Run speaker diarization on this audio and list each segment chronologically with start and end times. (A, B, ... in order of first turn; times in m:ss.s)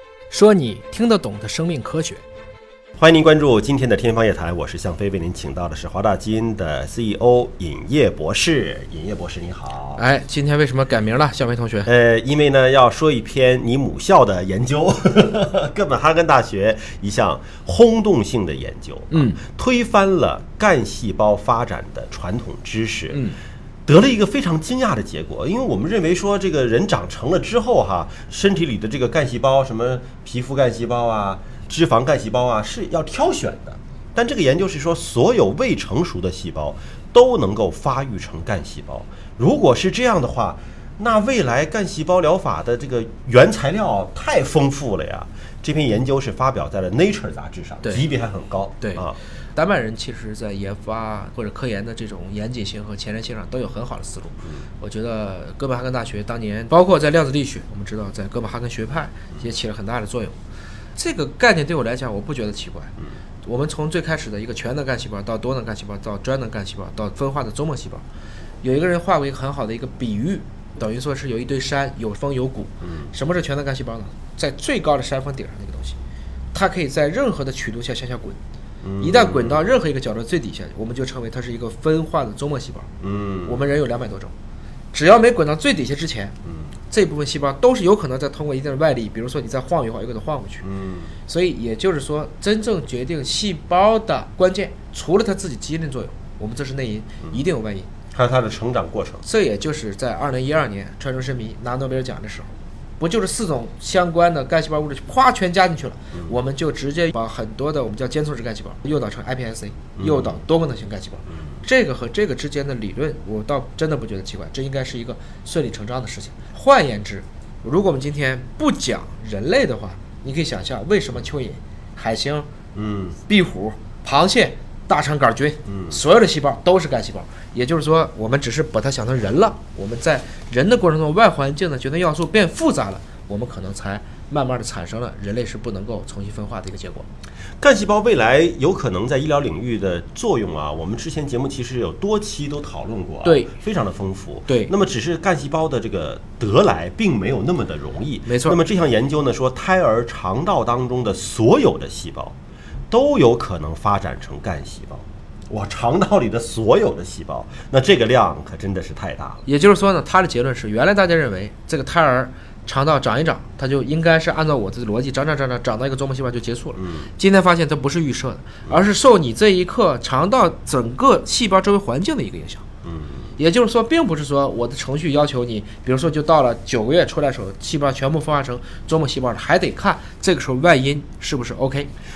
0:00.3-0:02.2 A
0:03.0-0:10.0 B
0:10.0-0:11.9 A
0:11.8-0:23.2 B
0:19.1-0:19.4 A
0:23.8-0:49.2 B
0:48.8-1:00.4 A
1:01.0-1:08.0 A
1:08.6-1:16.0 A
1:16.5-1:18.4 A
1:18.8-1:19.6 B
1:19.0-1:22.9 A
1:23.0-1:23.6 B
1:23.4-1:24.3 A
1:24.9-1:26.3 A
1:26.9-1:30.6 A
1:30.6-1:31.1 B
1:31.2-1:37.9 A
1:38.1-1:39.2 B
1:39.2-2:02.5 A
1:50.0-1:50.3 B
2:02.7-2:03.2 B
2:03.3-2:17.1 A
2:05.6-2:06.0 B
2:17.6-2:32.3 B
2:23.2-2:23.5 A
2:28.3-2:28.6 A
2:32.9-2:39.4 B
2:39.4-2:52.6 A
2:46.8-2:47.1 B
2:52.8-2:53.3 B
2:53.4-3:01.9 A